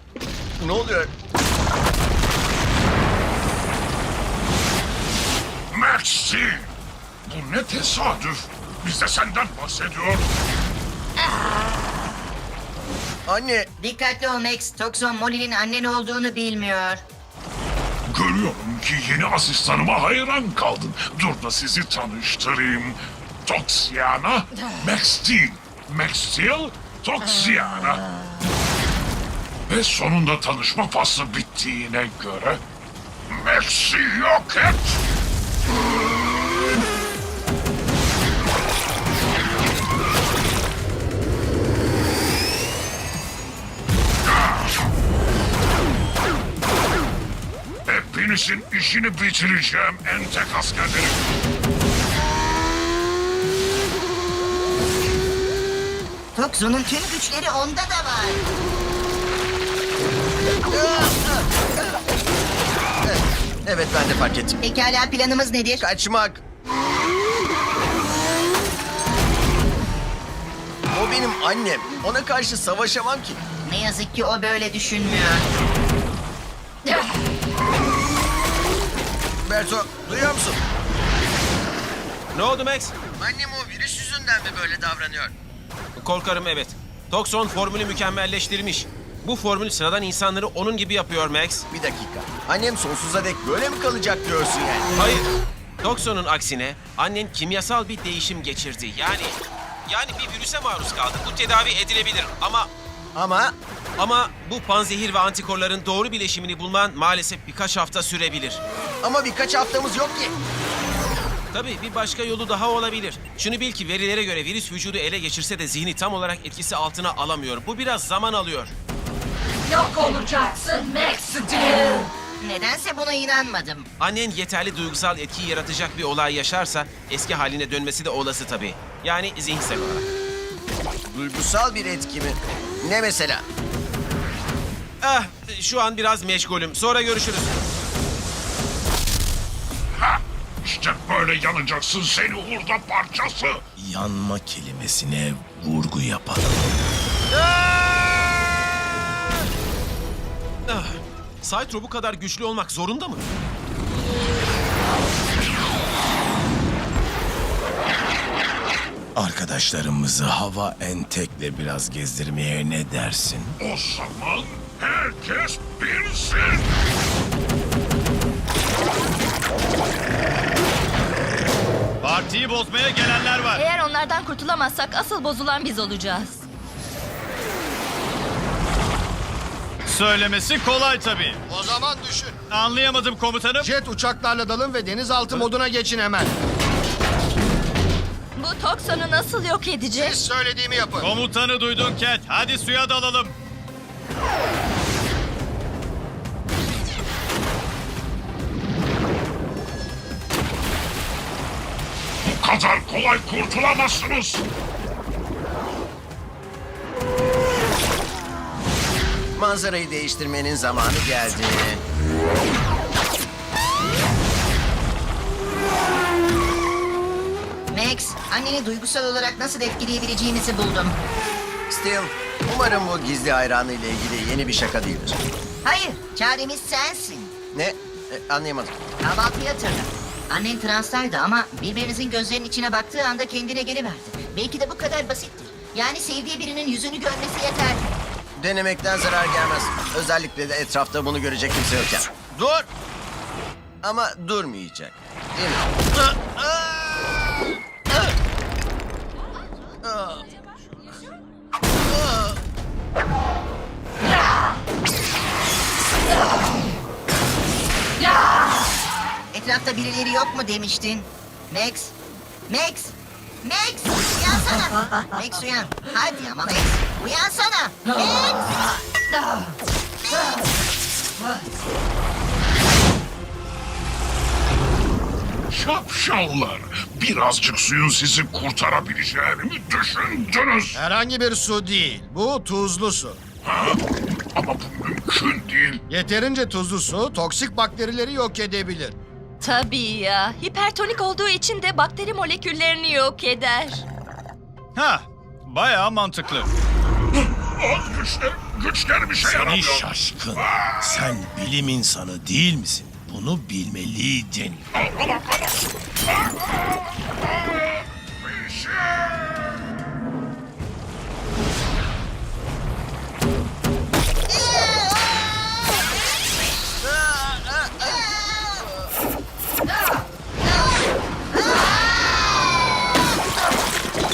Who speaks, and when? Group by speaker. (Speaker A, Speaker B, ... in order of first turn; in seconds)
Speaker A: 0.6-1.1, 13.3-13.7, 60.7-62.0, 63.0-64.6, 65.8-66.4, 70.9-73.4, 79.4-80.6, 83.2-85.3, 91.7-94.9, 103.1-103.5, 109.0-110.3, 131.1-133.4, 147.3-149.2, 209.3-211.8, 221.7-225.2, 227.5-228.8, 238.4-242.7, 243.8-248.1, 249.8-250.3, 251.8-252.4, 314.3-315.1, 316.8-318.9
Speaker B: 5.7-6.7, 7.2-10.3, 18.1-28.0, 29.7-32.6, 33.3-35.0, 44.2-44.8, 47.9-51.2, 140.0-143.6, 163.6-166.7, 202.2-204.4, 275.5-280.8, 283.4-283.8, 284.3-285.8, 297.2-301.1, 304.7-309.4
Speaker C: 13.8-17.0, 56.3-58.5, 64.6-65.8, 73.6-75.5, 122.4-123.9, 217.7-221.0, 225.6-227.3, 229.0-237.9, 259.3-261.9, 262.5-268.5, 317.9-318.6, 320.4-320.7, 321.3-322.4
Speaker D: 82.3-82.9, 86.0-91.7, 95.0-95.3, 95.8-102.7, 104.0-108.6, 111.5-118.7, 124.0-130.1, 135.0-137.6, 150.7-153.2
Speaker E: 119.7-122.1
Speaker F: 143.8-146.9, 159.2-163.6, 299.2-304.7
Speaker G: 172.0-173.6, 179.9-181.4, 182.5-183.7, 191.0-193.3, 294.7-296.5
Speaker H: 173.5-176.4, 188.3-190.2, 289.4-293.8
Speaker I: 181.5-182.3, 183.6-186.3, 189.9-191.1, 280.7-283.2, 285.9-289.0